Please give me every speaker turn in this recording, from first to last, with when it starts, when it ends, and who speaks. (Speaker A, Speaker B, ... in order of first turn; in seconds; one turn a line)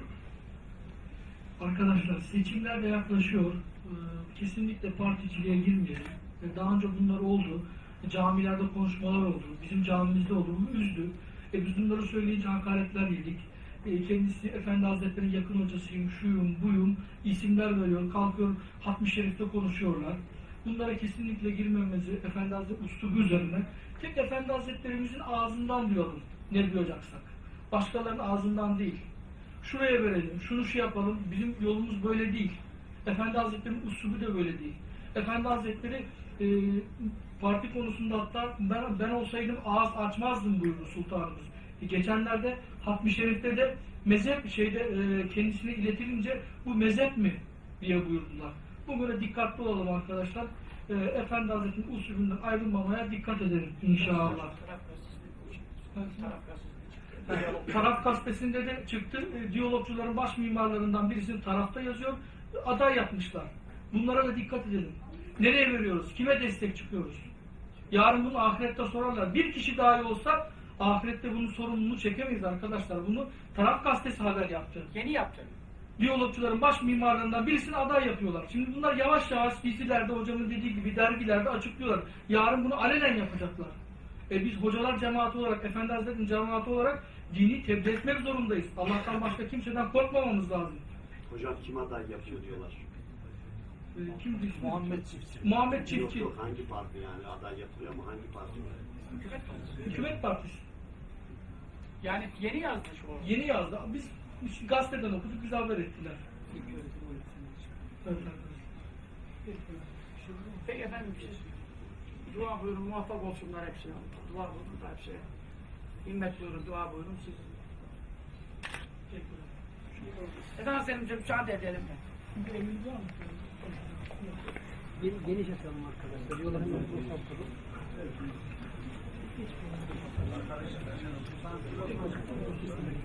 Speaker A: 1.6-29.1
Speaker A: 29.6-54.5
Speaker B: 53.9-57.9
Speaker A: 55.9-56.3
Speaker A: 57.3-67.3
Speaker A: 67.9-74.9
Speaker B: 74.9-75.6
Speaker A: 76.0-83.8
Speaker A: 84.3-90.9
Speaker C: 91.3-92.8
Speaker A: 93.9-96.3
Speaker C: 95.7-98.9
Speaker B: 99.1-99.8
Speaker A: 99.8-100.6
Speaker B: 102.0-103.3
Speaker A: 103.2-106.4
Speaker B: 106.5-107.2
Speaker A: 108.0-108.6
Speaker D: 110.3-110.6
Speaker B: 110.6-111.5
Speaker B: 112.2-115.2
Speaker B: 116.0-117.5
Speaker A: 119.1-120.2
Speaker B: 120.5-122.0
Speaker A: 122.4-124.4
Speaker D: 125.0-127.5
Speaker D: 132.0-132.9